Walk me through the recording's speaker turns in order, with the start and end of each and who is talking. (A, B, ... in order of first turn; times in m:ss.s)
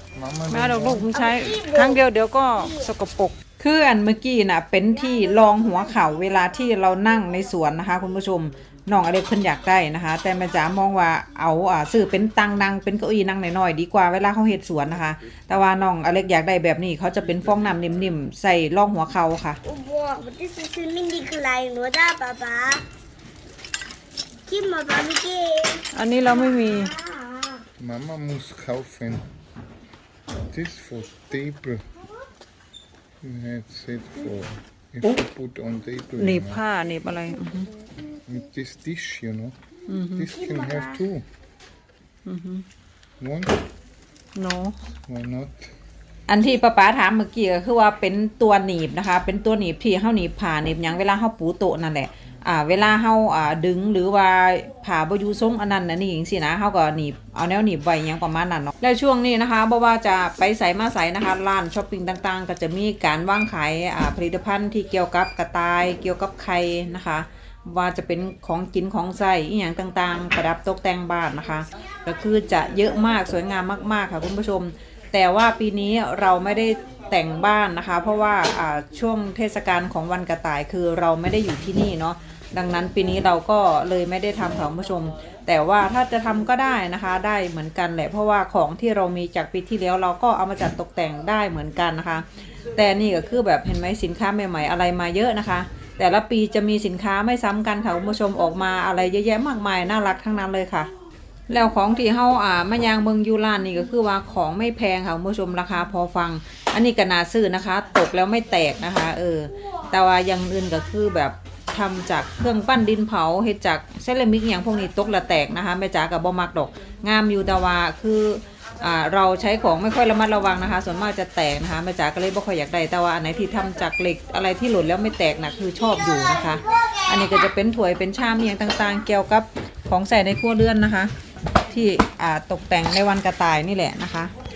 0:00.1-0:01.1 A
0:00.5-0:19.6 B
0:01.1-0:02.0 C
0:19.6-0:22.9 C
0:24.5-0:27.6 C
0:25.9-0:27.0 B
0:27.8-0:29.3 A
0:30.5-0:31.9 A
0:33.2-0:36.6 A
0:36.2-0:37.7 B
0:38.3-0:39.6 A
0:39.9-0:40.3 B
0:40.2-0:41.3 A
0:40.4-0:41.0 C
0:42.3-0:42.7 B
0:43.2-0:43.6 A
0:44.4-0:44.8 B
0:45.1-0:45.7 A
0:46.3-1:40.9 B
1:41.5-2:11.1 B
2:11.7-2:14.3 B